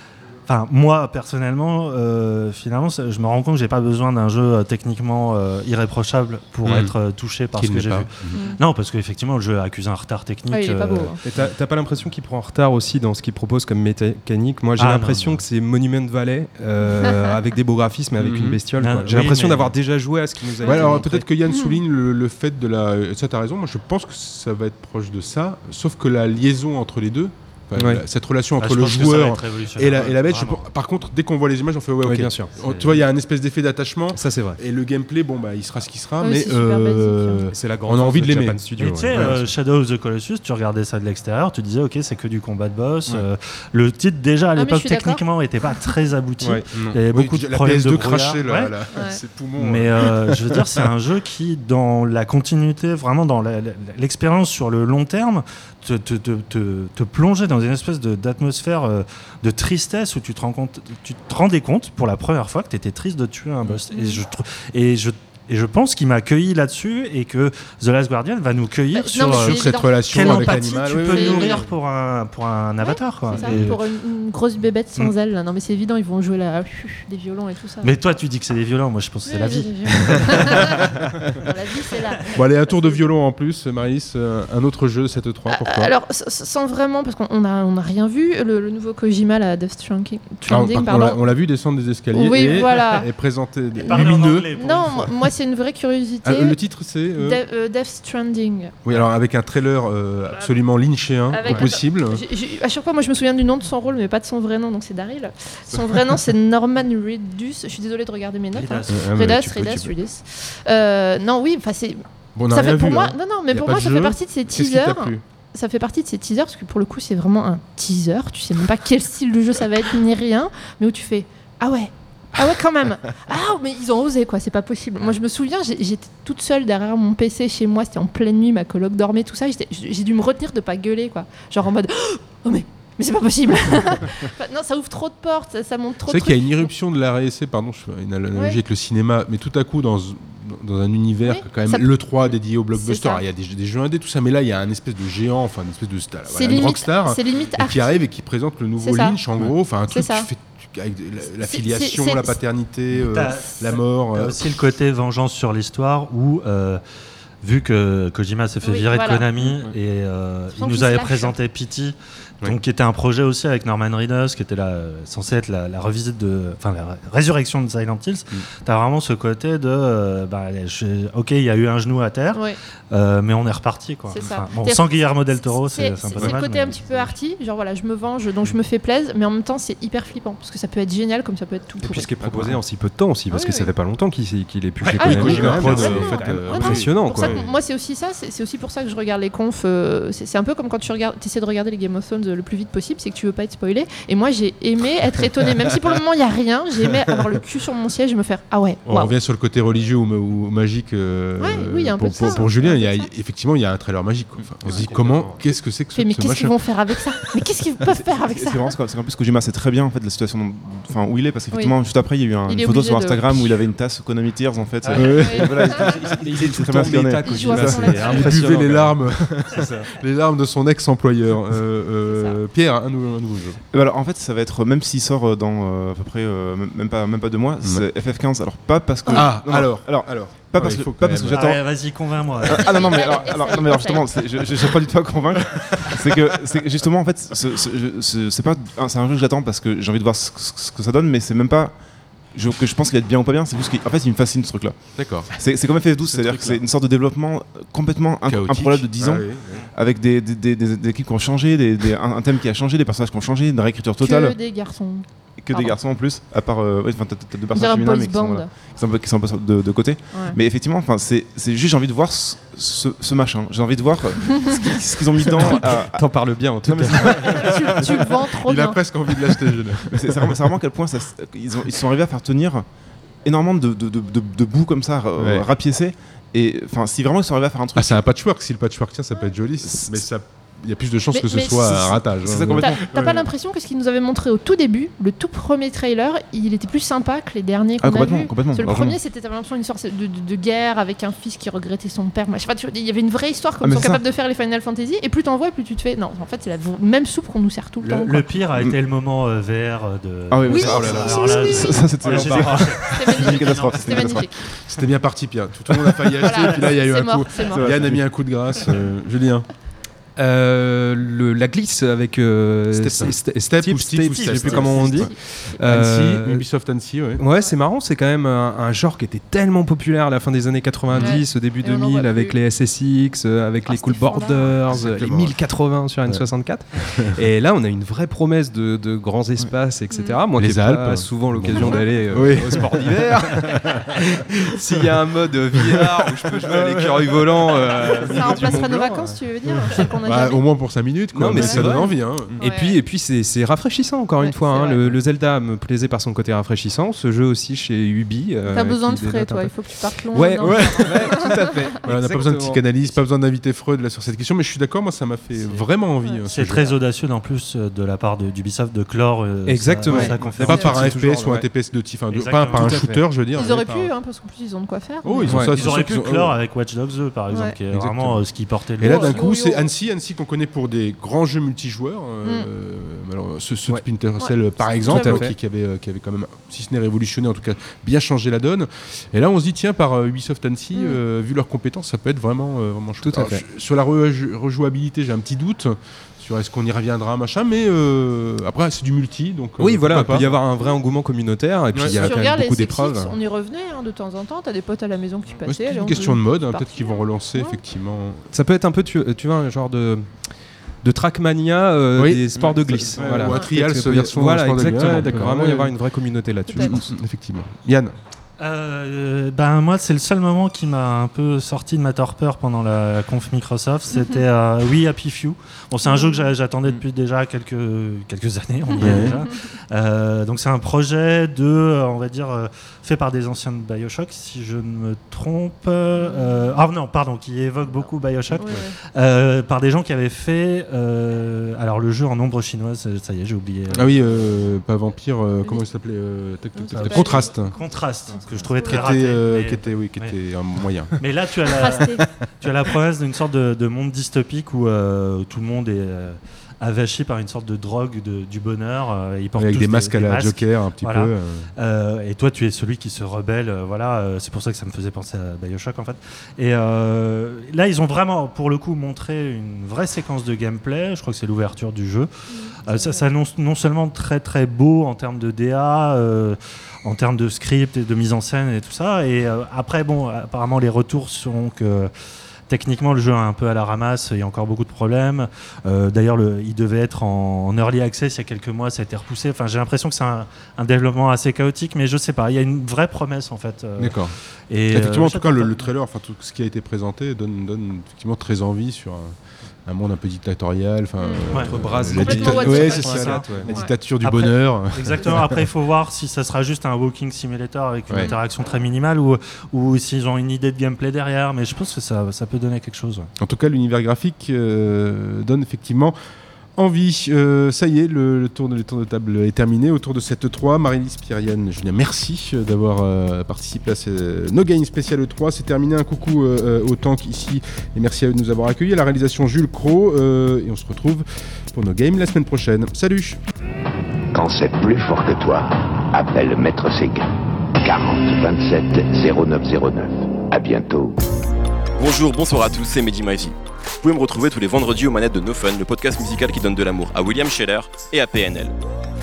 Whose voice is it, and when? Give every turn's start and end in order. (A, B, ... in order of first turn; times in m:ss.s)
0:00.5-0:11.1 A
0:06.6-0:06.9 B
0:07.6-0:08.4 B
0:08.3-0:08.6 C
0:10.5-0:11.2 C
0:11.2-0:21.2 D
0:14.8-0:15.4 A
0:16.8-0:17.3 C
0:18.2-0:18.6 B
0:18.8-0:19.7 A
0:20.6-0:21.8 C
0:20.6-0:39.4 B
0:27.8-0:28.0 D
0:28.6-0:30.6 A
0:32.0-0:33.0 D
0:34.1-0:34.6 D
0:36.2-0:37.5 C
0:37.5-0:39.3 D
0:38.8-0:48.7 A
0:44.6-0:45.9 C
0:46.7-0:50.6 B
0:48.9-0:49.2 C
0:49.6-1:13.7 A
1:03.9-1:04.2 C
1:08.9-1:11.6 C
1:09.2-1:11.6 B
1:12.8-1:17.9 C
1:13.4-1:13.8 B
1:17.8-1:20.8 A
1:19.2-1:23.0 C
1:22.3-1:25.9 B
1:25.5-1:31.2 C
1:30.4-1:34.5 B
1:32.1-1:33.1 C
1:32.5-1:33.0 A
1:33.8-1:36.6 C
1:33.8-1:35.1 A
1:36.2-1:37.4 B
1:37.1-1:38.8 C
1:38.8-1:42.2 B
1:41.3-2:16.7 C
1:48.5-1:49.1 A
1:48.9-1:49.9 B
1:52.3-1:55.2 B
2:16.1-2:34.4 B
2:18.3-2:18.6 C
2:21.2-2:21.9 C
2:22.7-2:23.2 C
2:26.3-2:28.0 C
2:28.8-2:29.2 C
2:29.9-2:30.3 C
2:31.4-2:32.4 C
2:33.1-2:36.8 A
2:37.4-2:57.1 A
2:38.6-2:39.2 C
2:40.5-2:41.4 C
2:54.1-3:02.1 C
3:01.8-3:07.4 D
3:02.2-3:02.6 B
3:03.3-3:03.7 C
3:04.8-3:07.4 B
3:04.9-3:19.1 C
3:05.6-3:05.9 A
3:18.8-3:26.6 B
3:21.4-3:23.1 C
3:24.7-3:25.4 D
3:25.9-3:28.7 C
3:28.0-3:37.9 E
3:31.5-3:31.8 C
3:32.4-3:33.5 C
3:34.8-3:35.8 A
3:34.9-3:36.0 B
3:35.1-3:35.7 C
3:36.2-3:39.7 D
3:37.2-3:38.6 C
3:37.7-3:43.6 B
3:42.1-3:42.4 C
3:43.7-4:14.6 E
3:49.1-3:51.5 B
3:51.3-3:52.9 A
3:52.5-3:54.4 C
4:04.9-4:05.3 B
4:06.1-4:06.5 B
4:08.2-4:09.6 B
4:14.0-4:15.8 C
4:15.4-4:27.8 E
4:17.5-4:18.5 C
4:20.1-4:20.4 C
4:25.3-4:27.5 D
4:27.0-4:28.8 C
4:28.3-4:30.4 B
4:29.9-4:38.0 E
4:35.2-4:35.5 B
4:37.7-4:43.3 B
4:39.6-4:40.0 E
4:41.1-4:42.0 C
4:42.2-4:43.1 E
4:42.6-4:58.2 C
4:47.8-4:49.0 E
4:53.6-4:54.0 E
4:57.8-4:58.2 B
4:58.0-5:04.1 A
5:00.3-5:04.7 E
5:00.5-5:01.9 C
5:02.0-5:02.7 D
5:02.8-5:04.6 C
5:04.6-5:09.5 B
5:06.2-5:07.7 C
5:07.5-5:08.3 E
5:10.2-5:16.4 D
5:12.7-5:17.2 B
5:14.1-5:14.7 A
5:14.5-5:15.2 C
5:17.2-5:34.0 D
5:20.9-5:21.2 B
5:20.9-5:22.4 C
5:23.6-5:24.6 C
5:24.7-5:25.4 B
5:26.0-5:27.2 B
5:29.9-5:30.2 C
5:30.4-5:33.7 B
5:31.5-5:31.9 C
5:34.5-5:34.9 B
5:34.6-5:39.2 D
5:35.6-5:37.3 B
5:37.8-5:40.4 C
5:39.5-5:42.4 B
5:41.1-5:52.6 D
5:41.2-5:42.8 C
5:44.2-5:44.8 C
5:48.5-5:51.3 C
5:50.4-5:51.3 B
5:51.8-5:56.8 B
5:56.0-5:56.3 C
5:56.3-6:00.8 A
5:59.4-6:01.5 D
5:59.9-6:00.8 C
6:00.3-6:03.9 B
6:02.1-6:02.8 A
6:02.5-6:03.0 D
6:03.3-6:05.4 C
6:05.0-6:06.4 B
6:05.3-6:05.5 D
6:05.4-6:09.2 A
6:07.3-6:07.6 C
6:07.7-6:08.2 B
6:08.8-6:30.4 B
6:08.8-6:09.7 C
6:14.2-6:15.2 C
6:14.8-6:15.3 D
6:23.0-6:23.4 D
6:29.6-6:33.2 D
6:31.7-6:32.1 B
6:31.9-6:37.6 C
6:35.4-6:38.3 B
6:38.3-6:40.3 D
6:40.8-6:46.9 D
6:41.9-6:45.7 B
6:43.0-6:43.5 C
6:44.9-6:45.2 A
6:46.5-6:46.8 C
6:46.6-6:47.9 B
6:48.4-7:13.9 A
6:55.8-6:56.3 C
6:58.7-6:59.1 C
6:58.8-6:59.2 B
7:06.0-7:06.5 C
7:07.6-7:08.7 C
7:13.7-7:17.5 B
7:16.5-7:17.8 C
7:16.7-7:20.1 A
7:18.4-7:19.1 C
7:18.6-7:20.9 B
7:21.0-7:42.1 A
7:21.5-7:22.0 C
7:29.3-7:31.5 B
7:42.3-7:43.1 C
7:42.6-7:51.9 A
7:52.5-8:05.7 A
8:03.8-8:04.1 B
8:04.7-8:15.4 B
8:11.0-8:11.2 C
8:11.3-8:13.5 D
8:11.9-8:13.7 C
8:12.2-8:13.1 A
8:14.0-8:23.1 A
8:23.2-8:26.0 B
8:26.5-8:43.2 B
8:44.1-8:51.0 F
8:51.8-8:58.6 G